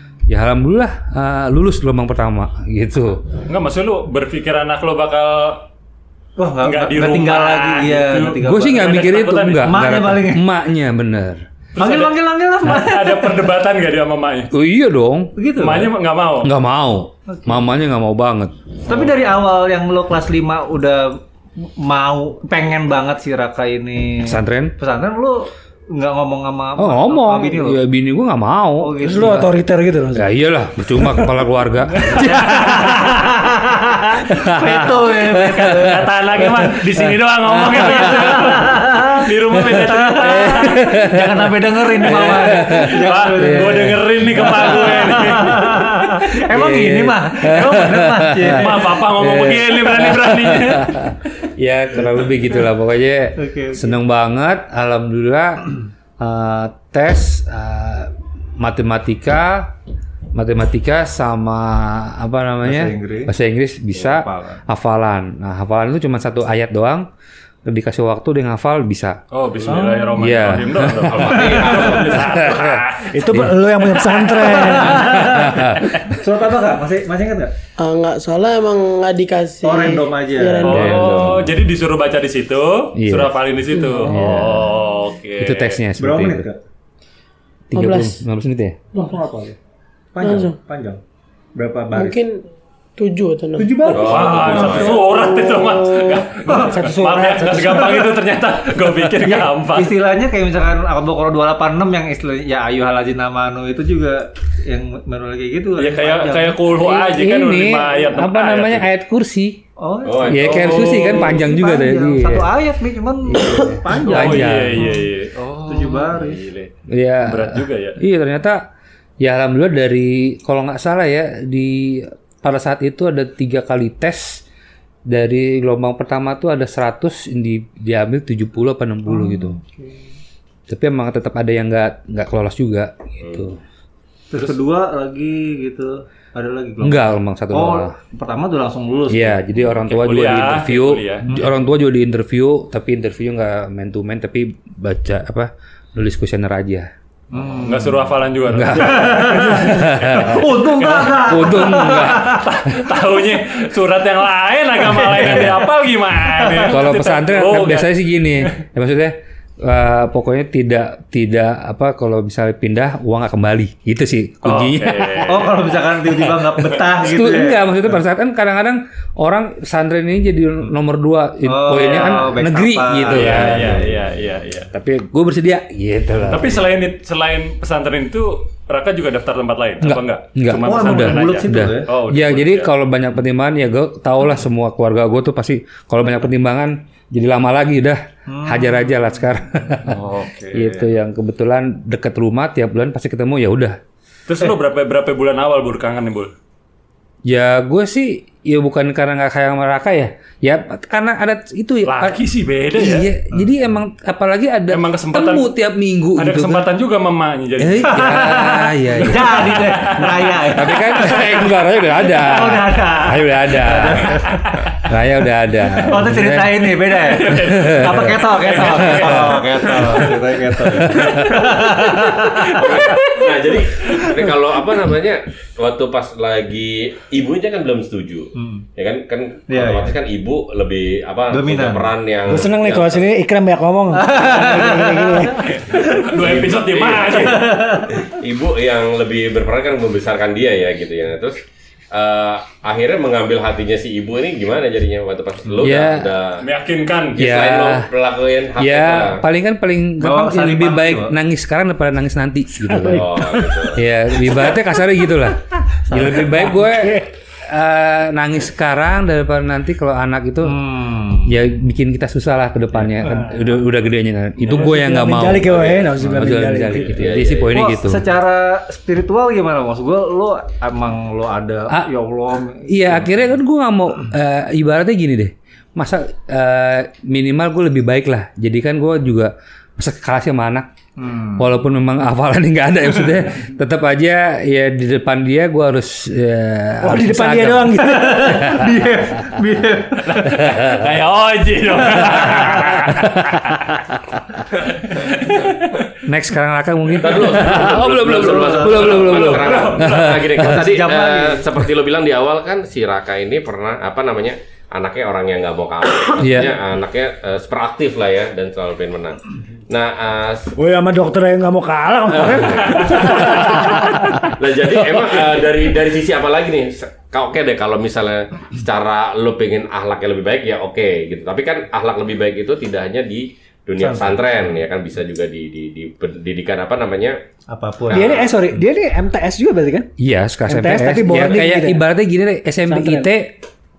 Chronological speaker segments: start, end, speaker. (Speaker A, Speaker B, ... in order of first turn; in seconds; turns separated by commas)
Speaker A: 0.3-3.3, Speaker B: 3.5-5.7, Speaker C: 6.4-8.9, Speaker B: 6.6-9.8, Speaker A: 8.4-11.4, Speaker C: 9.6-10.4, Speaker B: 11.8-14.5, Speaker C: 11.8-13.4, Speaker A: 14.5-15.3, Speaker C: 15.4-15.9, Speaker B: 15.6-16.5, Speaker A: 16.4-18.6, Speaker C: 17.3-17.6, Speaker C: 18.9-27.8, Speaker A: 24.2-24.7, Speaker A: 26.8-29.4, Speaker C: 28.8-29.4, Speaker D: 29.0-30.3, Speaker A: 30.1-32.3, Speaker B: 32.1-33.1, Speaker C: 32.4-36.4, Speaker D: 32.4-32.8, Speaker A: 34.3-38.6, Speaker B: 35.6-40.9, Speaker C: 38.0-39.2, Speaker A: 39.5-44.1, Speaker C: 39.7-48.8, Speaker B: 42.0-46.0, Speaker A: 46.5-59.7, Speaker B: 48.5-51.1, Speaker C: 53.4-53.9, Speaker A: 60.3-67.1, Speaker C: 62.6-63.3, Speaker C: 64.0-64.6, Speaker A: 67.7-69.2, Speaker B: 69.3-73.2, Speaker C: 69.7-70.1, Speaker A: 70.1-73.7, Speaker E: 71.1-72.4, Speaker D: 73.0-75.2, Speaker C: 74.4-77.5, Speaker A: 74.9-75.9, Speaker F: 77.8-81.2, Speaker C: 79.6-81.1, Speaker B: 80.6-85.8, Speaker A: 80.7-81.4, Speaker E: 80.8-81.5, Speaker A: 83.0-83.3, Speaker C: 83.9-84.5, Speaker A: 84.1-84.7, Speaker A: 85.4-86.5, Speaker C: 86.0-86.6, Speaker A: 87.7-88.8, Speaker F: 87.8-88.2, Speaker C: 88.9-89.6, Speaker C: 90.1-91.0, Speaker F: 90.2-90.6, Speaker C: 91.6-92.2, Speaker F: 91.9-92.4, Speaker F: 93.0-93.9, Speaker C: 93.6-95.5, Speaker D: 93.6-94.8, Speaker E: 93.9-95.1, Speaker B: 93.9-100.0, Speaker D: 95.7-98.1, Speaker C: 96.4-97.0, Speaker C: 99.2-106.6, Speaker B: 105.8-108.9, Speaker A: 106.7-109.6, Speaker C: 109.8-116.5, Speaker E: 110.0-111.0, Speaker A: 110.3-112.5, Speaker B: 110.5-111.4, Speaker B: 113.3-118.0, Speaker A: 113.6-115.0, Speaker A: 116.9-118.7, Speaker A: 119.2-124.4, Speaker A: 125.1-129.6, Speaker C: 129.1-130.0, Speaker A: 130.7-133.6, Speaker C: 134.3-139.4, Speaker A: 136.8-138.0, Speaker A: 139.1-146.9, Speaker B: 139.9-141.3, Speaker C: 147.3-148.1, Speaker B: 147.5-158.5, Speaker A: 148.5-152.4, Speaker C: 148.8-152.4, Speaker A: 155.3-155.5, Speaker A: 156.7-165.4, Speaker B: 164.4-165.8, Speaker C: 165.3-167.7, Speaker A: 167.0-173.8, Speaker C: 171.4-174.0, Speaker B: 173.1-174.7, Speaker A: 174.7-176.7, Speaker B: 176.2-182.7, Speaker A: 179.8-193.8, Speaker C: 180.5-181.9, Speaker C: 188.3-189.1, Speaker B: 189.9-190.8, Speaker B: 194.3-196.3, Speaker A: 197.3-202.2, Speaker B: 201.8-203.1, Speaker A: 202.7-206.7, Speaker B: 204.7-205.5, Speaker B: 206.2-208.4, Speaker A: 207.6-219.3, Speaker C: 207.9-214.4, Speaker B: 209.4-211.2, Speaker B: 214.3-214.7, Speaker C: 215.8-223.4, Speaker B: 216.9-220.1, Speaker E: 219.2-220.2, Speaker A: 220.8-221.4, Speaker B: 220.8-223.0, Speaker E: 222.5-233.1, Speaker C: 228.3-228.7, Speaker C: 229.5-230.0, Speaker C: 231.3-231.9, Speaker D: 232.3-235.6, Speaker C: 234.0-235.8, Speaker B: 235.5-237.6, Speaker E: 236.1-241.4, Speaker C: 237.2-238.0, Speaker E: 241.9-246.4, Speaker A: 245.6-246.1, Speaker B: 246.4-247.2, Speaker E: 247.2-249.2, Speaker A: 247.2-247.9, Speaker A: 248.6-253.2, Speaker C: 250.0-251.2, Speaker D: 252.7-253.6, Speaker E: 252.8-253.8, Speaker A: 253.7-260.6, Speaker D: 256.0-257.1, Speaker C: 260.4-261.4, Speaker A: 261.2-268.0, Speaker D: 264.5-267.0, Speaker E: 266.8-267.6, Speaker C: 267.5-273.3, Speaker A: 272.7-280.7, Speaker C: 281.0-281.5, Speaker A: 281.4-288.7, Speaker D: 286.8-288.6, Speaker C: 287.8-290.5, Speaker B: 290.0-293.8, Speaker A: 290.4-290.9, Speaker A: 292.0-293.4, Speaker B: 294.7-295.8, Speaker A: 296.0-300.6, Speaker E: 297.0-310.5, Speaker C: 297.8-299.2, Speaker B: 298.9-300.3, Speaker C: 300.4-301.5, Speaker A: 306.2-306.6, Speaker D: 310.6-314.3, Speaker E: 312.1-327.2, Speaker B: 312.9-313.7, Speaker C: 323.8-324.2, Speaker C: 327.5-328.6, Speaker D: 327.9-329.9, Speaker E: 327.9-328.3, Speaker A: 330.0-333.4, Speaker D: 330.5-331.8, Speaker D: 332.7-333.1